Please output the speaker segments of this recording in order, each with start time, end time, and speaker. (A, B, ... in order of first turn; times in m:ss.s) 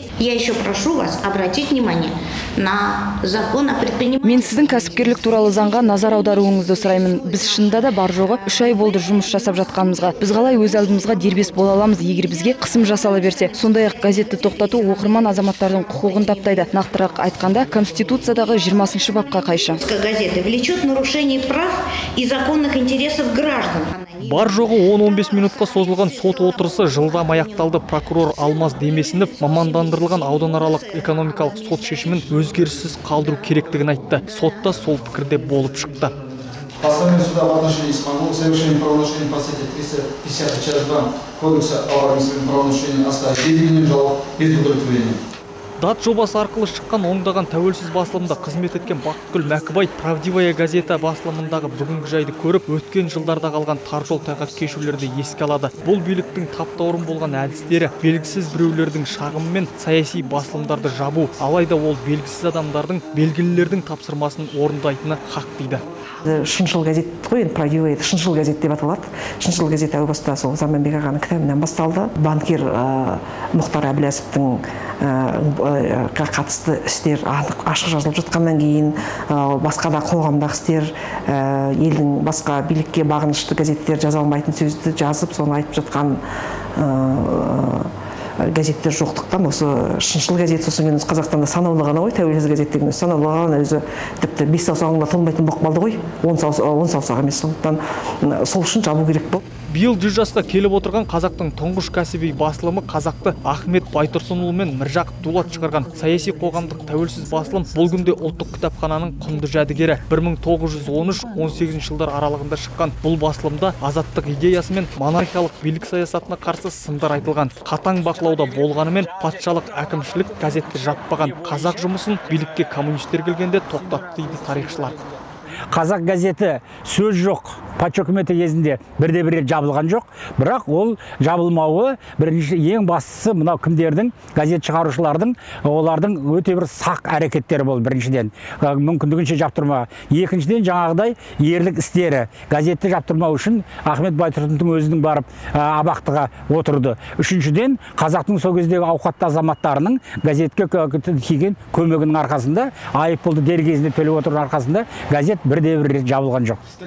0:00.2-0:04.4 A
0:04.2-0:19.8 B
0:19.8-0:24.1 A
0:24.2-0:36.1 C
0:36.8-0:45.2 D
0:45.8-1:05.8 C
1:06.2-1:26.2 E
1:26.8-1:39.4 E
1:39.7-2:05.0 C
2:05.7-2:36.6 F